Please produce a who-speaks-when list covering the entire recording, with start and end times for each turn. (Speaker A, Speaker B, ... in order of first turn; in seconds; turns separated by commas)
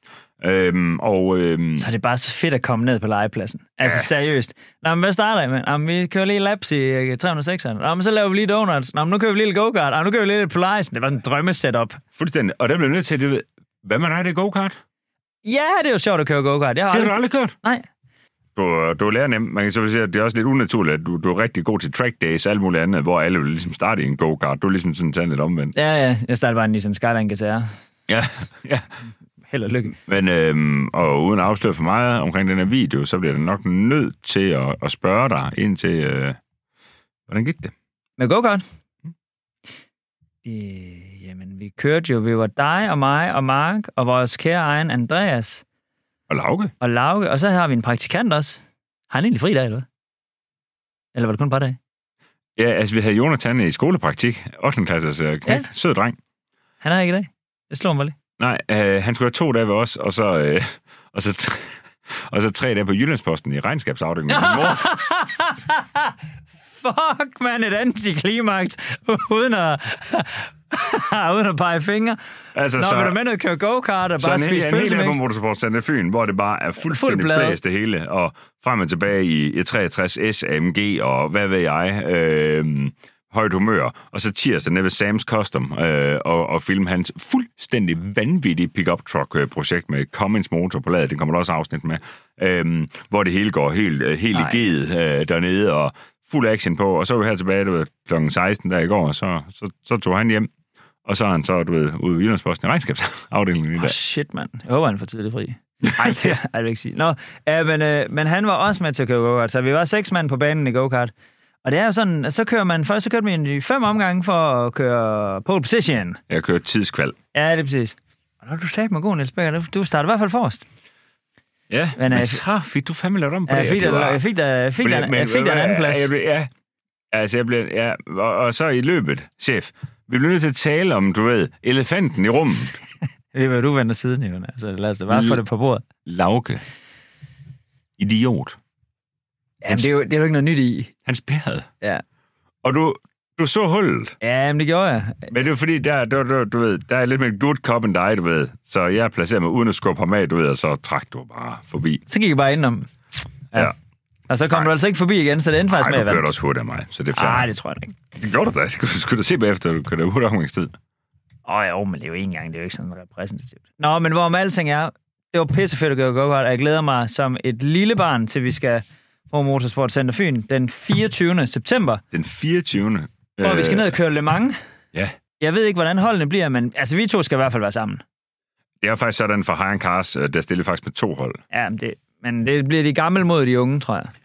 Speaker A: 0.4-1.9, Speaker B: 1.8-12.0, Speaker A: 3.8-4.1, Speaker A: 12.2-14.8, Speaker B: 15.4-17.9, Speaker A: 16.9-17.5, Speaker A: 18.6-25.7, Speaker B: 25.8-27.7, Speaker A: 28.1-28.9, Speaker B: 29.5-30.0, Speaker A: 30.1-36.4, Speaker A: 37.3-37.7, Speaker B: 38.2-38.6, Speaker B: 40.5-45.6, Speaker A: 46.3-46.7, Speaker B: 46.8-49.9, Speaker B: 51.1-51.8, Speaker A: 52.6-56.2, Speaker B: 56.8-58.1, Speaker A: 58.4-64.9, Speaker B: 64.3-66.2, Speaker B: 66.8-72.2, Speaker A: 72.5-73.2, Speaker B: 72.8-75.2, Speaker A: 74.2-100.5, Speaker B: 76.8-77.6, Speaker B: 94.3-94.6, Speaker A: 101.0-104.0, Speaker B: 103.8-111.1, Speaker A: 105.9-106.3, Speaker B: 111.6-116.2, Speaker A: 116.3-117.2, Speaker B: 117.3-120.7, Speaker A: 121.7-124.2, Speaker B: 122.0-122.4, Speaker B: 123.5-126.1, Speaker A: 124.8-126.5, Speaker A: 127.1-132.8, Speaker B: 133.3-135.8, Speaker A: 135.1-135.4, Speaker A: 136.1-136.6, Speaker A: 138.0-138.6, Speaker B: 139.6-140.9, Speaker A: 141.1-141.7, Speaker A: 142.6-144.2, Speaker B: 144.2-145.3, Speaker A: 145.3-152.0, Speaker B: 152.1-152.9, Speaker B: 154.3-156.3, Speaker A: 155.7-157.5, Speaker B: 157.1-158.0, Speaker A: 158.2-160.7, Speaker B: 161.5-172.0, Speaker A: 172.1-173.9, Speaker B: 173.4-174.6, Speaker B: 175.4-178.0, Speaker A: 178.8-181.4, Speaker B: 181.5-184.1